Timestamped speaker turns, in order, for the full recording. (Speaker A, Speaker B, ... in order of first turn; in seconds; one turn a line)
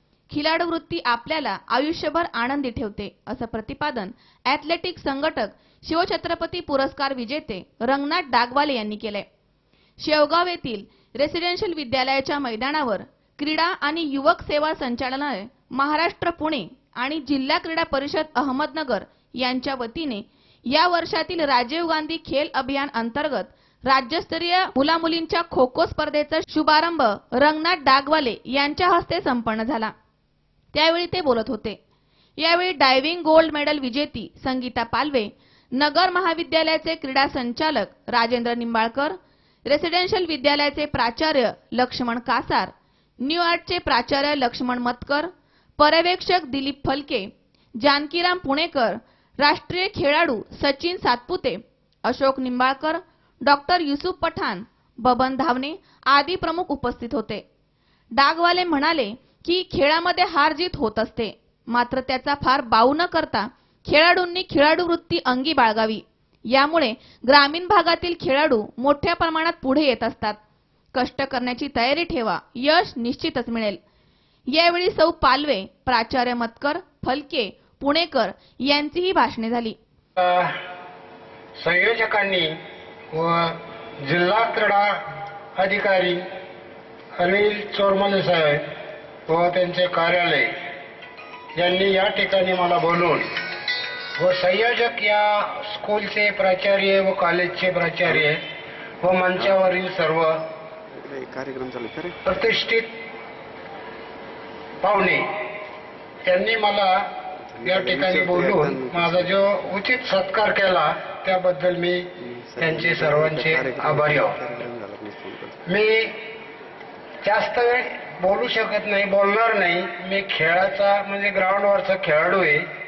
Speaker A: 0.3-9.2
Speaker A: 10.0-29.9
Speaker A: 30.7-31.8
Speaker A: 32.4-57.4
Speaker A: 58.1-70.4
Speaker A: 70.9-73.8
Speaker A: 74.5-79.8
Speaker B: 80.2-80.5
Speaker B: 81.6-82.5
Speaker B: 83.1-85.0
Speaker B: 85.5-86.2
Speaker B: 87.2-88.6
Speaker B: 89.3-90.5
Speaker B: 91.5-93.3
Speaker B: 94.2-98.4
Speaker B: 99.0-100.4
Speaker C: 99.3-99.6
Speaker C: 100.9-102.3
Speaker B: 102.2-102.9
Speaker B: 104.8-105.3
Speaker B: 106.3-107.0
Speaker C: 107.5-109.4
Speaker B: 107.6-112.1
Speaker C: 112.2-115.6
Speaker B: 112.6-114.4
Speaker B: 115.7-116.1
Speaker B: 117.2-122.6